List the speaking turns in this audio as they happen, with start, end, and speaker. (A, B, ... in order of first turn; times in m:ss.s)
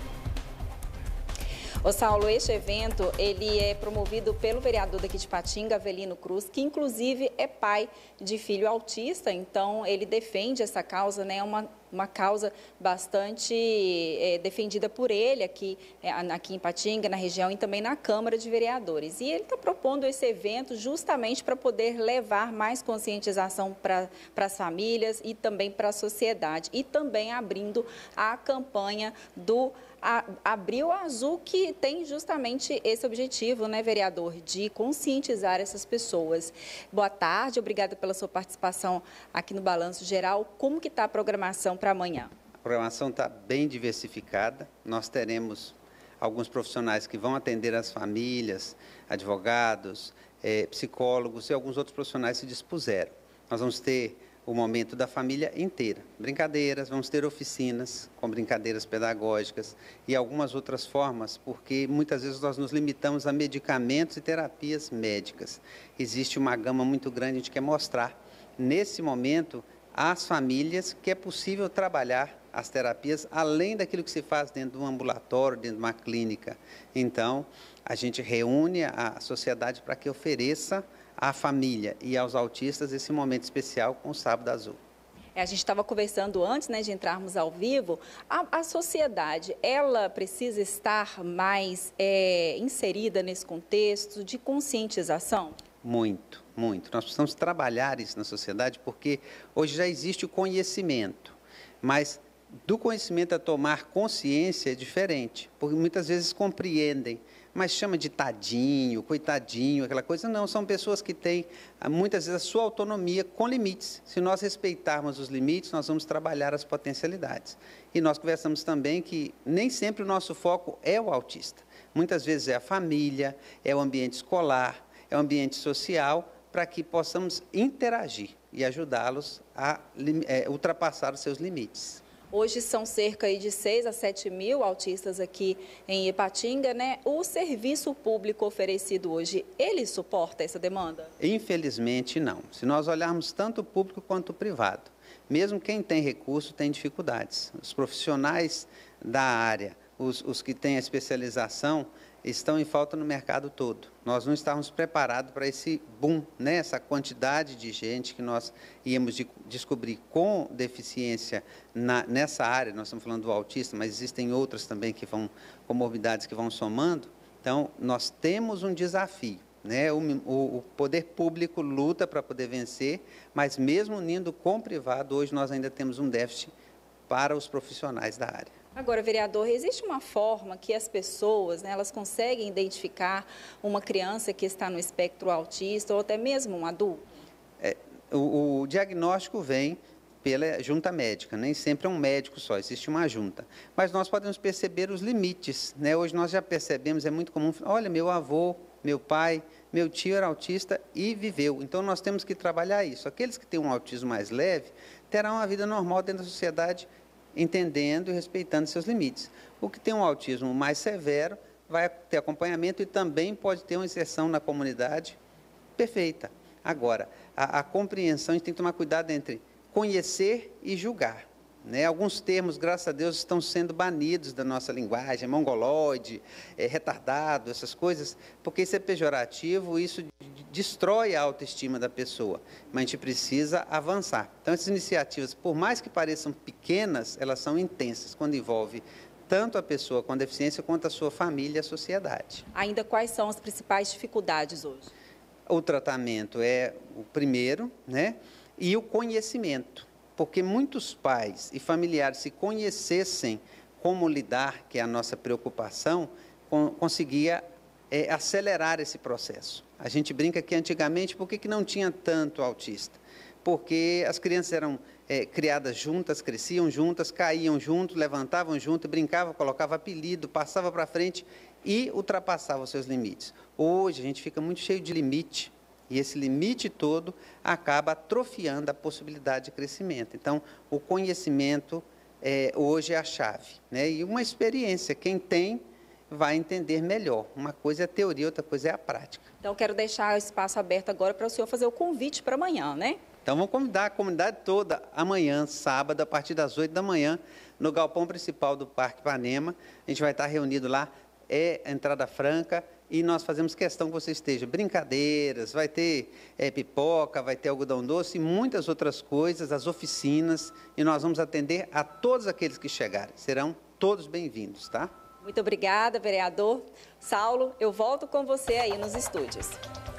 0:01.8-0:42.3 A
0:42.6-1:24.8 B
1:25.4-1:35.6 A
1:35.8-2:12.0 B
2:12.3-2:21.1 A
2:21.2-2:56.5 B
2:57.1-2:58.5 B
2:58.8-3:07.1 A
3:07.6-3:35.2 B
3:35.8-4:02.5 B
4:02.5-4:04.9 A
4:05.5-4:49.3 B
4:49.4-4:53.0 A
4:53.2-5:14.9 B
5:15.2-5:19.6 A